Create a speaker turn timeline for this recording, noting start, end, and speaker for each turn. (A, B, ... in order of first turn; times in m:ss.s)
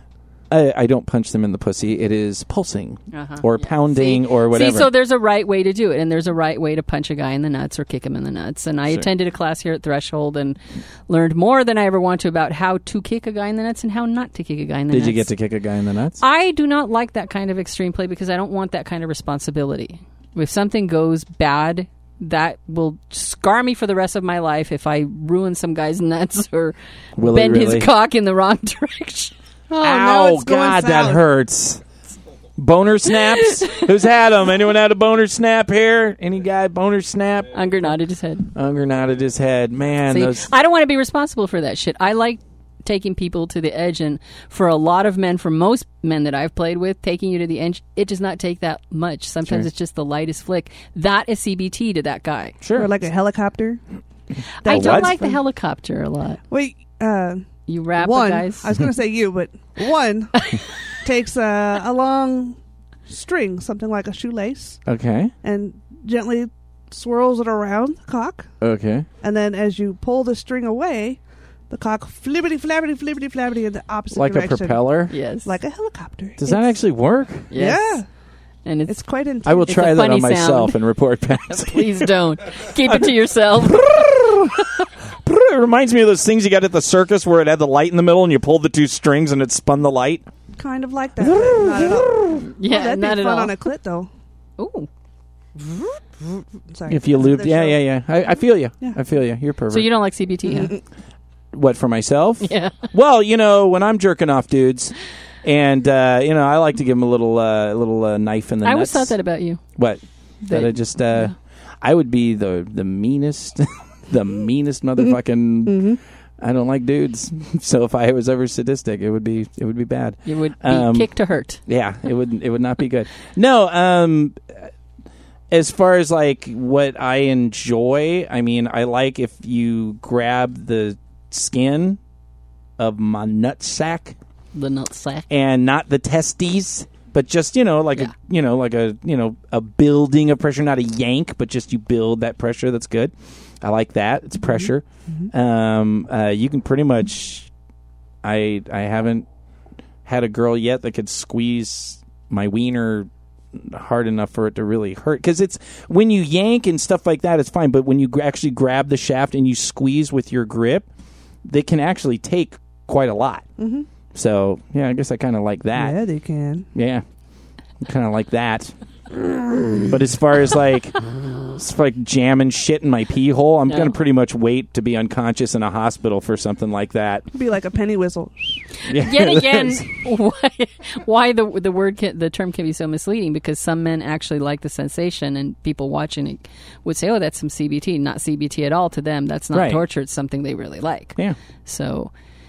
0:00.5-0:04.9 A
0:03.1-0:15.3 B
0:14.9-0:16.2 A
0:16.2-0:29.3 B
0:27.2-0:27.9 A
0:29.7-0:31.2 C
0:29.8-0:31.8 A
0:32.6-0:37.6 A
0:37.5-0:38.5 B
0:38.5-0:40.5 A
0:40.1-0:52.6 B
0:52.6-0:52.9 A
0:52.7-0:53.8 C
0:54.6-0:56.4 B
0:54.6-0:55.4 C
0:54.7-0:55.2 A
0:56.5-0:57.4 C
0:57.7-0:58.7 B
0:58.0-1:04.8 C
1:04.8-1:05.3 A
1:05.4-1:08.5 C
1:08.6-1:09.1 A
1:09.2-1:14.8 C
1:14.1-1:15.1 A
1:15.1-1:15.5 B
1:15.4-1:16.6 C
1:16.4-1:17.5 A
1:17.5-1:18.0 B
1:17.5-1:18.1 C
1:18.6-1:19.0 B
1:18.9-1:19.9 C
1:19.4-1:22.0 A
1:19.6-1:20.8 B
1:21.3-1:24.2 B
1:22.8-1:30.3 A
1:30.5-1:34.1 C
1:31.2-1:32.4 A
1:32.4-1:33.5 B
1:34.6-1:34.9 B
1:36.7-1:37.8 C
1:36.9-1:39.9 A
1:39.7-1:40.8 B
1:41.5-1:49.1 A
1:42.4-1:42.8 B
1:48.6-1:49.6 B
1:49.8-2:01.1 A
1:50.4-1:51.3 B
1:55.6-1:56.0 C
2:00.2-2:01.6 B
2:01.6-2:04.6 A
2:05.5-2:12.0 A
2:12.8-2:14.2 A
2:14.5-2:15.3 B
2:15.3-2:27.5 A
2:28.2-2:29.2 A
2:30.0-2:40.9 A
2:41.4-2:43.4 A
2:43.6-2:43.9 C
2:44.1-2:46.0 A
2:45.7-2:46.7 C
2:46.7-2:47.0 A
2:47.8-2:57.2 A
2:53.7-2:54.0 B
2:57.3-2:58.6 C
2:58.8-3:12.1 B
2:58.8-2:59.8 A
3:09.5-3:09.8 A